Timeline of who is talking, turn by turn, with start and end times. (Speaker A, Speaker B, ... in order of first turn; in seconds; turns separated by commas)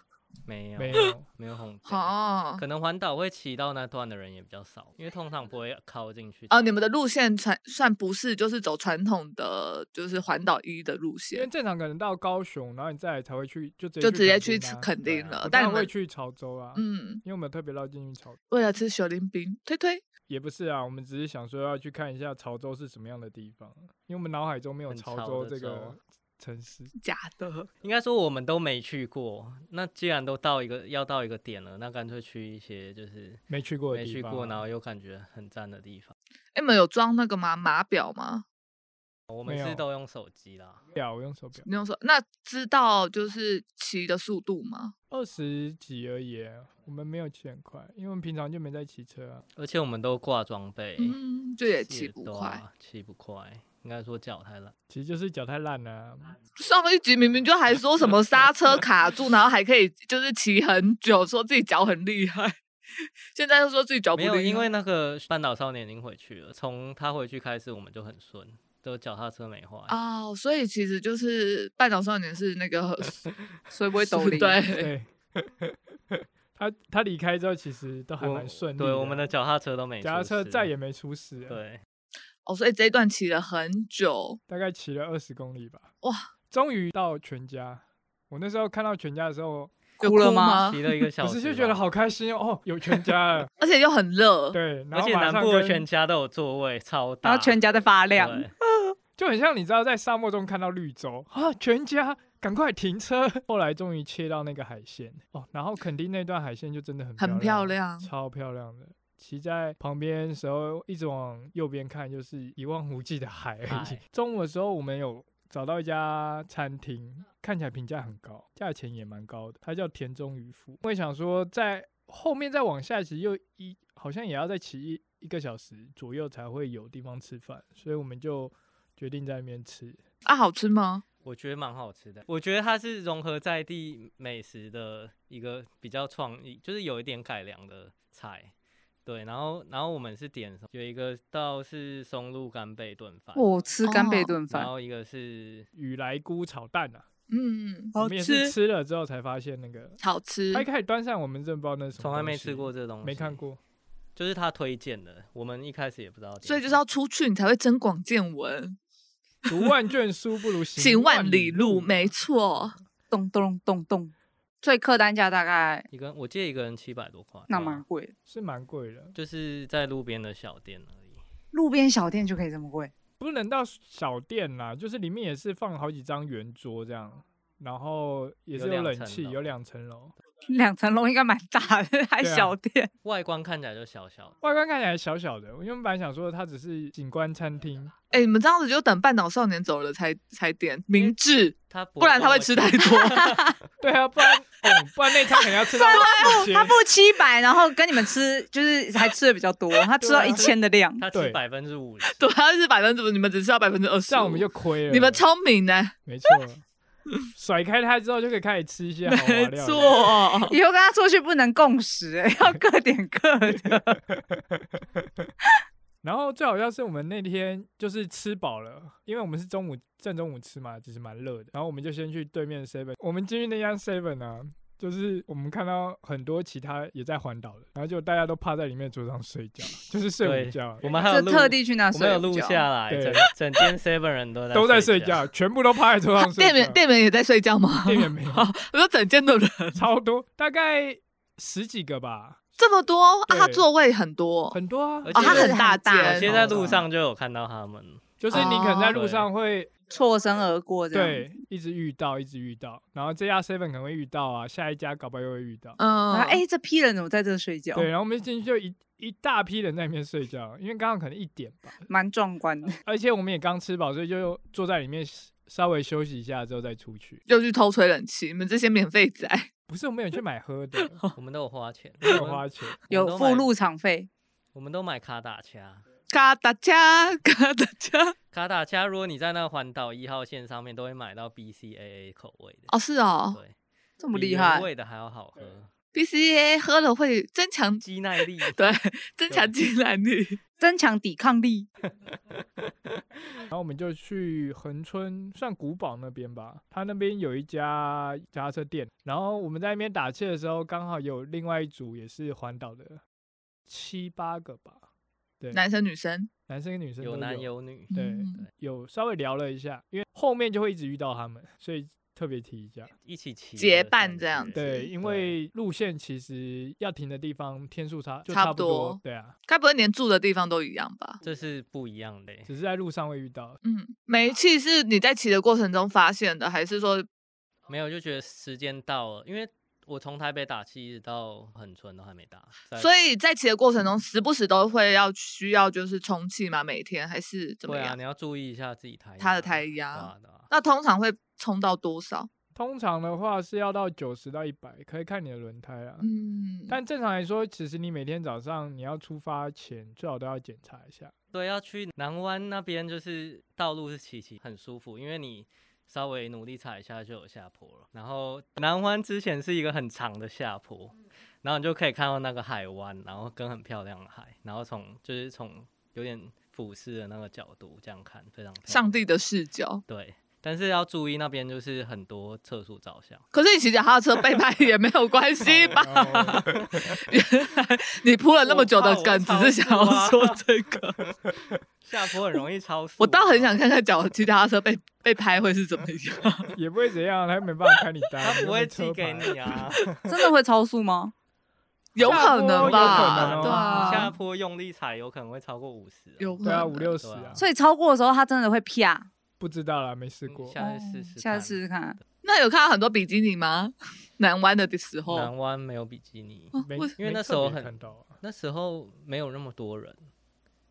Speaker A: 0.5-6.8, Speaker B: 0.8-1.3, Speaker C: 1.9-2.6, Speaker C: 6.5-11.5, Speaker B: 11.3-14.9, Speaker C: 14.0-15.9, Speaker A: 15.0-15.4, Speaker B: 15.4-18.4, Speaker C: 16.8-17.2, Speaker C: 18.5-20.0, Speaker B: 20.3-26.9, Speaker A: 24.9-26.0, Speaker C: 27.0-27.7, Speaker A: 27.8-33.4, Speaker B: 33.5-34.6, Speaker A: 33.9-36.1, Speaker C: 36.5-38.4, Speaker A: 39.3-40.8, Speaker B: 39.5-39.8, Speaker B: 40.9-41.6, Speaker C: 41.6-44.9, Speaker B: 45.1-49.4, Speaker A: 49.5-51.2, Speaker C: 51.0-52.6, Speaker A: 51.9-54.7, Speaker B: 54.9-56.3, Speaker C: 56.6-62.5, Speaker C: 63.3-64.7, Speaker A: 64.1-69.9, Speaker C: 69.9-73.2, Speaker D: 73.7-74.6, Speaker C: 74.0-74.9, Speaker B: 74.7-79.2, Speaker A: 78.2-80.7, Speaker B: 80.0-81.6, Speaker A: 81.5-81.8, Speaker C: 82.4-84.4, Speaker B: 84.5-85.9, Speaker C: 86.0-86.3, Speaker B: 86.5-89.7, Speaker C: 90.0-91.0, Speaker D: 90.0-90.6, Speaker A: 90.6-91.8, Speaker B: 91.2-93.5, Speaker C: 93.6-94.6, Speaker B: 94.5-95.8, Speaker A: 94.9-97.6, Speaker D: 97.2-98.5, Speaker A: 98.2-98.5, Speaker B: 99.2-130.0, Speaker C: 107.2-108.1, Speaker A: 113.7-114.0, Speaker C: 130.2-131.0, Speaker A: 131.2-138.5, Speaker A: 139.0-143.5, Speaker D: 143.3-144.7, Speaker C: 143.8-144.4, Speaker A: 144.5-145.7, Speaker B: 145.7-147.0, Speaker C: 147.3-148.0, Speaker D: 147.9-148.5, Speaker B: 148.0-150.0, Speaker C: 150.0-150.7, Speaker B: 150.5-153.6, Speaker A: 152.0-153.4, Speaker A: 154.2-156.8, Speaker C: 156.4-158.8, Speaker B: 159.5-162.6, Speaker C: 160.8-162.7, Speaker D: 163.1-165.8, Speaker A: 165.9-167.8, Speaker D: 167.5-168.1, Speaker B: 168.3-169.2, Speaker A: 169.1-171.2, Speaker D: 171.5-172.9, Speaker B: 173.2-180.1, Speaker A: 178.5-179.5, Speaker D: 180.4-182.9, Speaker B: 182.2-182.5, Speaker A: 183.0-184.3, Speaker B: 184.4-187.9, Speaker C: 188.1-193.3, Speaker A: 190.9-193.6, Speaker B: 193.8-196.8, Speaker D: 195.7-201.0, Speaker C: 195.8-196.5, Speaker B: 200.0-200.5, Speaker A: 200.2-202.2, Speaker B: 201.1-201.4, Speaker C: 202.1-205.9, Speaker B: 204.1-205.2, Speaker B: 206.1-206.6, Speaker B: 207.3-210.1, Speaker C: 209.0-210.6, Speaker D: 210.4-213.9, Speaker B: 213.4-215.3, Speaker B: 216.0-230.9, Speaker A: 230.2-235.2, Speaker D: 230.9-232.6, Speaker B: 232.9-233.3, Speaker B: 234.5-236.8, Speaker C: 236.2-239.8, Speaker B: 237.8-238.5, Speaker B: 239.8-242.4, Speaker C: 242.6-244.6, Speaker B: 243.3-243.6, Speaker B: 244.5-245.4, Speaker A: 245.0-249.3, Speaker C: 245.1-246.7, Speaker D: 245.1-246.2, Speaker B: 246.2-246.8, Speaker B: 248.2-249.7, Speaker C: 248.3-249.0, Speaker D: 249.9-251.3, Speaker B: 250.9-255.8, Speaker C: 255.8-256.4, Speaker D: 256.1-257.9, Speaker B: 257.7-261.7, Speaker D: 261.9-262.8, Speaker B: 262.8-267.2, Speaker C: 267.3-269.5, Speaker B: 269.7-271.0, Speaker C: 270.8-271.1, Speaker A: 271.1-273.5, Speaker B: 272.0-272.8, Speaker D: 272.9-274.1, Speaker A: 274.5-275.8, Speaker C: 276.1-278.1, Speaker A: 278.3-282.7, Speaker C: 282.7-283.4, Speaker D: 284.0-284.7, Speaker A: 284.1-285.7, Speaker C: 285.9-287.8, Speaker A: 287.8-288.6, Speaker C: 288.4-290.4, Speaker D: 290.6-291.7, Speaker B: 293.5-303.0, Speaker B: 303.7-304.8, Speaker C: 305.5-306.3, Speaker B: 306.5-312.9, Speaker A: 307.0-308.4, Speaker C: 307.9-308.4, Speaker A: 313.0-315.3, Speaker C: 313.6-314.9, Speaker B: 314.5-319.3, Speaker C: 318.3-321.2, Speaker A: 321.2-322.5, Speaker B: 322.5-323.6, Speaker C: 323.6-327.1, Speaker A: 327.7-332.9, Speaker C: 332.8-337.9, Speaker A: 337.7-340.5, Speaker C: 339.2-342.3, Speaker B: 342.5-346.1, Speaker C: 346.0-346.8, Speaker B: 346.7-351.1, Speaker A: 351.3-369.0, Speaker C: 368.7-369.8, Speaker A: 369.9-373.2, Speaker C: 373.3-381.0, Speaker A: 375.4-375.8, Speaker B: 375.8-376.9, Speaker A: 376.4-376.7, Speaker A: 378.4-380.4, Speaker A: 381.0-381.3, Speaker A: 381.8-383.6, Speaker C: 383.0-386.5, Speaker B: 386.5-389.6, Speaker A: 388.2-390.1, Speaker D: 390.1-391.1, Speaker C: 391.9-394.1, Speaker B: 392.0-393.7, Speaker A: 392.0-397.4, Speaker D: 392.7-394.1, Speaker C: 396.2-396.9, Speaker B: 396.4-397.4, Speaker D: 397.4-399.1, Speaker B: 399.4-400.6, Speaker A: 400.3-402.0, Speaker D: 400.6-402.0, Speaker C: 402.2-405.3, Speaker A: 405.1-410.1, Speaker C: 406.5-406.9, Speaker B: 406.6-408.2